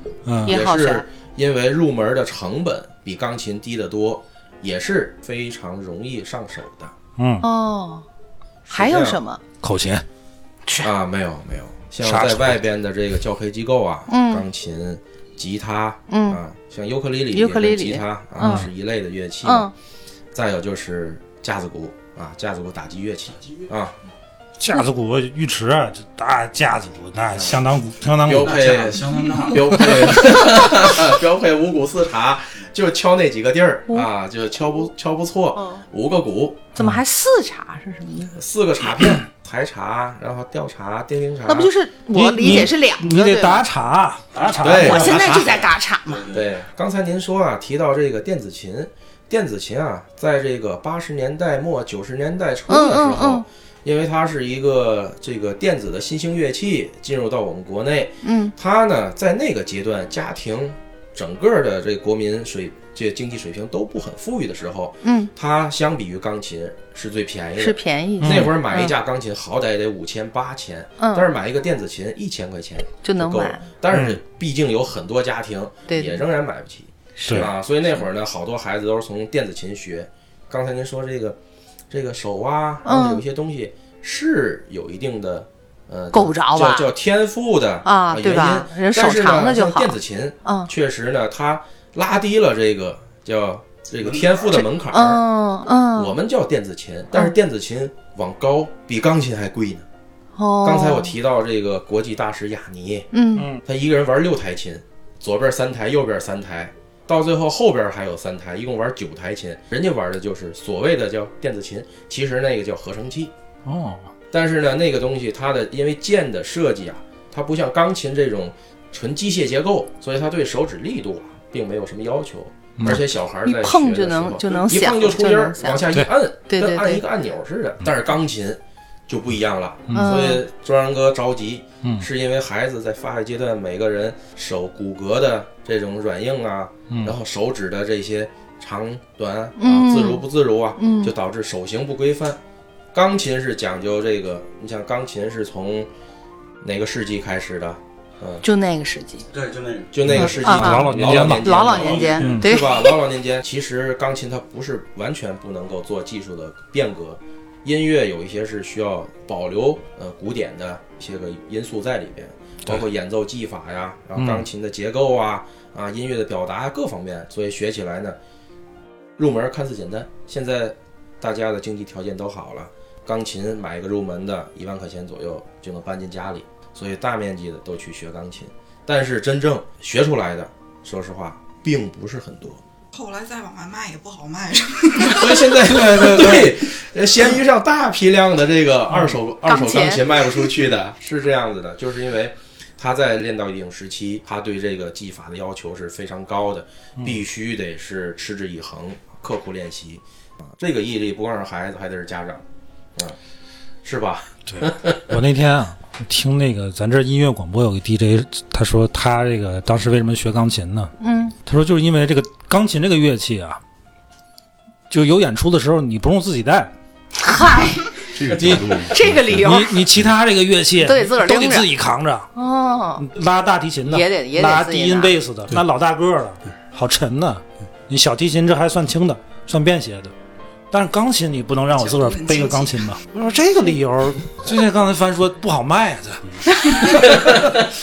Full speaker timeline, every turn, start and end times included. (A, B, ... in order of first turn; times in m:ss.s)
0:00.3-0:00.6 A
0:00.4-0:06.9 B
0:00.5-0:01.0 C
0:07.2-0:07.4 A
0:07.4-0:08.0 C
0:08.7-0:09.2 B
0:08.7-0:09.4 C
0:09.6-0:10.0 A
0:10.8-0:19.7 B
0:12.0-0:12.6 A
0:14.1-0:14.4 C
0:16.1-0:16.4 C
0:17.3-0:18.7 C
0:18.4-0:18.7 A
0:19.4-0:19.7 C
0:20.3-0:24.0 B
0:24.6-0:28.7 A
0:28.2-0:36.7 B
0:28.3-0:30.3 D
0:35.6-0:35.8 C
0:36.8-0:38.4 C
0:38.3-0:41.7 B
0:41.5-0:43.7 C
0:42.1-0:45.2 A
0:44.3-0:46.5 D
0:44.6-0:45.7 B
0:44.8-0:46.3 C
0:46.3-1:21.4 B
0:52.7-0:53.4 C
0:58.2-0:58.5 C
1:05.0-1:05.3 C
1:07.6-1:08.9 C
1:08.2-1:08.5 A
1:11.0-1:11.3 C
1:13.0-1:13.6 C
1:15.9-1:16.2 C
1:17.2-1:17.5 C
1:21.9-1:35.2 B
1:22.9-1:23.2 C
1:26.1-1:26.9 C
1:27.8-1:29.9 C
1:30.4-1:30.7 C
1:34.0-1:34.4 D
1:34.5-1:36.2 C
1:36.0-1:39.9 B
1:40.4-1:41.1 C
1:40.6-1:43.1 B
1:43.1-1:43.5 C
1:43.4-1:43.6 A
1:43.6-1:53.3 B
1:53.7-1:54.1 A
1:54.3-2:22.4 B
2:02.9-2:05.9 C
2:06.5-2:07.0 C
2:09.9-2:10.1 A
2:09.9-2:10.4 C
2:16.9-2:17.2 A
2:19.6-2:20.2 C
2:20.8-2:21.1 C
2:22.9-2:25.9 B
2:26.6-2:28.5 B
2:28.4-2:29.3 C
2:29.3-2:30.8 D
2:29.9-2:48.2 B
2:30.1-2:31.6 A
2:30.1-2:33.0 C
2:31.7-2:32.4 D
2:32.2-2:32.5 A
2:44.2-2:44.5 A
2:49.2-3:02.6 B
3:02.9-3:05.6 E
3:05.0-3:22.4 B
3:05.7-3:06.5 A
3:09.4-3:10.4 C
3:23.8-3:25.1 B
3:24.5-3:30.9 A
3:31.0-3:31.4 C
3:31.5-3:33.6 A
3:34.9-3:36.7 A
3:37.2-3:39.8 C
3:38.1-3:40.1 D
3:38.4-3:38.8 A
3:39.4-3:42.3 A
3:40.8-3:41.7 C
3:42.3-3:43.1 C
3:43.0-3:50.1 A
3:43.9-3:45.2 C
3:50.7-3:56.2 A
3:51.7-3:53.0 E
3:56.3-3:57.6 D